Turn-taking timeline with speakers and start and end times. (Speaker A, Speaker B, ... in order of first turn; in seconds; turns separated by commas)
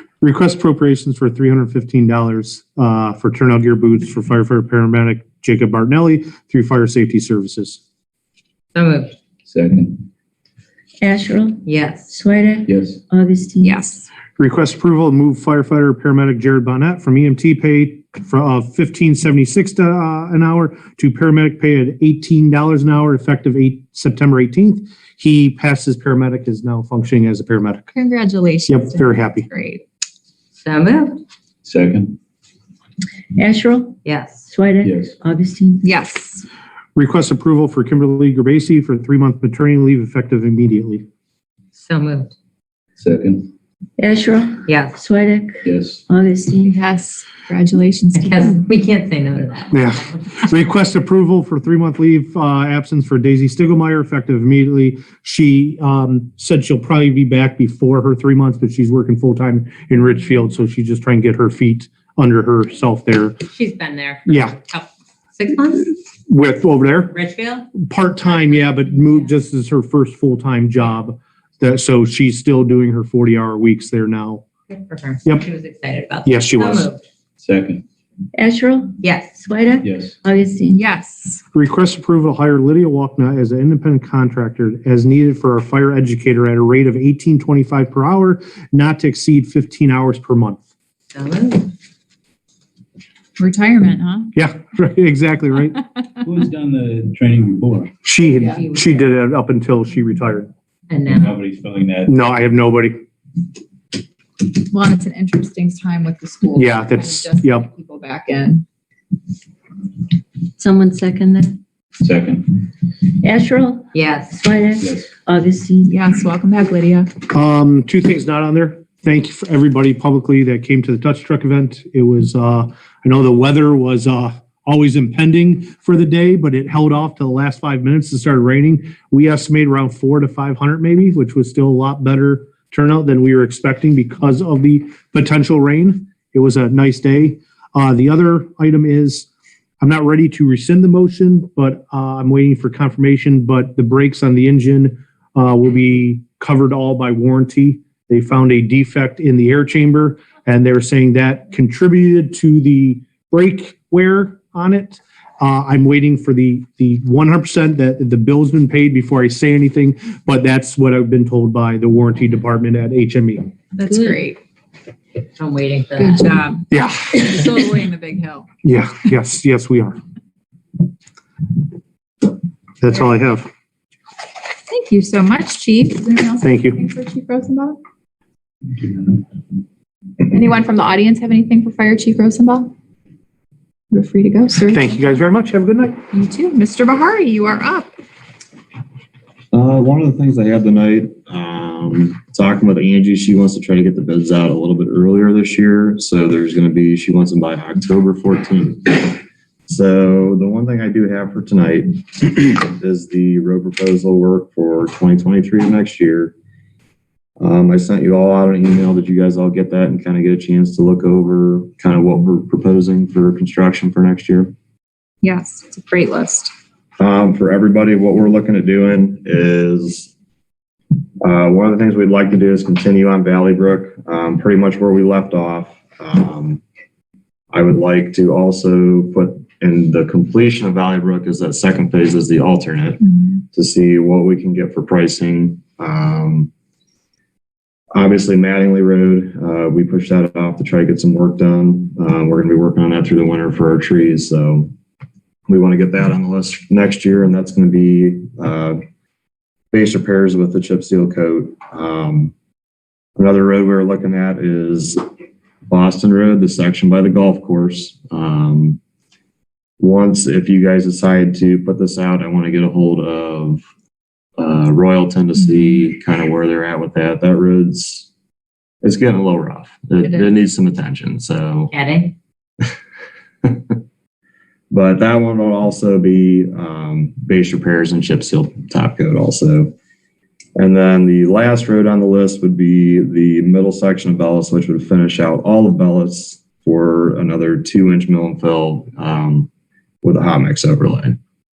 Speaker A: 0.2-7.8, Speaker B: 8.7-9.2, Speaker C: 9.4-10.1, Speaker D: 11.0-13.8, Speaker B: 11.6-12.1, Speaker C: 12.7-13.0, Speaker E: 13.6-14.1, Speaker A: 14.4-27.9, Speaker E: 27.9-29.8, Speaker A: 28.7-29.5, Speaker B: 30.6-31.2, Speaker C: 31.6-32.2, Speaker D: 33.3-35.9, Speaker B: 34.0-34.5, Speaker C: 34.8-35.1, Speaker E: 35.8-36.5, Speaker A: 36.9-41.0, Speaker B: 41.7-42.3, Speaker C: 43.0-43.5, Speaker D: 44.0-46.8, Speaker B: 44.6-45.0, Speaker C: 45.6-46.0, Speaker E: 46.6-48.6, Speaker B: 48.1-50.4, Speaker A: 49.7-63.5, Speaker B: 63.5-65.9, Speaker A: 64.2-64.6, Speaker A: 66.3-67.1, Speaker B: 67.1-67.7, Speaker A: 67.7-74.4, Speaker B: 74.7-77.0, Speaker A: 76.2-76.9, Speaker C: 77.4-77.8, Speaker D: 78.3-80.8, Speaker B: 79.0-79.4, Speaker C: 79.8-80.2, Speaker E: 80.7-81.4, Speaker A: 81.5-90.6, Speaker B: 91.1-91.7, Speaker E: 93.4-94.3, Speaker A: 94.3-95.8, Speaker C: 96.2-97.9, Speaker A: 98.0-100.5, Speaker E: 98.4-98.6, Speaker B: 98.6-99.1, Speaker B: 100.9-101.4, Speaker C: 101.0-102.1, Speaker A: 102.1-103.0, Speaker E: 104.7-108.6, Speaker A: 106.5-107.7, Speaker D: 110.6-111.6, Speaker C: 112.0-112.6, Speaker D: 113.2-115.9, Speaker B: 113.9-114.4, Speaker C: 114.8-115.1, Speaker E: 115.9-117.1, Speaker A: 117.3-139.3, Speaker A: 139.8-163.5, Speaker E: 163.8-164.4, Speaker B: 163.8-164.2, Speaker B: 165.3-166.3, Speaker E: 166.0-168.5, Speaker A: 166.7-167.2, Speaker A: 168.6-170.0, Speaker A: 172.8-173.5, Speaker E: 174.7-177.8, Speaker A: 176.4-176.8, Speaker E: 180.3-182.7, Speaker E: 183.9-185.0, Speaker A: 184.7-186.0, Speaker E: 186.1-187.9, Speaker F: 189.5-206.3, Speaker F: 207.4-214.5, Speaker E: 215.2-216.5, Speaker F: 217.0-220.1, Speaker F: 221.2-226.6, Speaker F: 227.5-236.5, Speaker F: 237.9-244.7, Speaker F: 245.5-248.8, Speaker F: 249.7-252.3, Speaker F: 253.2-255.0, Speaker F: 255.7-258.8, Speaker F: 259.8-263.6, Speaker F: 264.4-268.1, Speaker F: 268.8-271.7, Speaker B: 271.7-272.1, Speaker F: 273.4-273.7, Speaker F: 274.7-279.7, Speaker F: 280.6-289.5, Speaker F: 290.0-291.2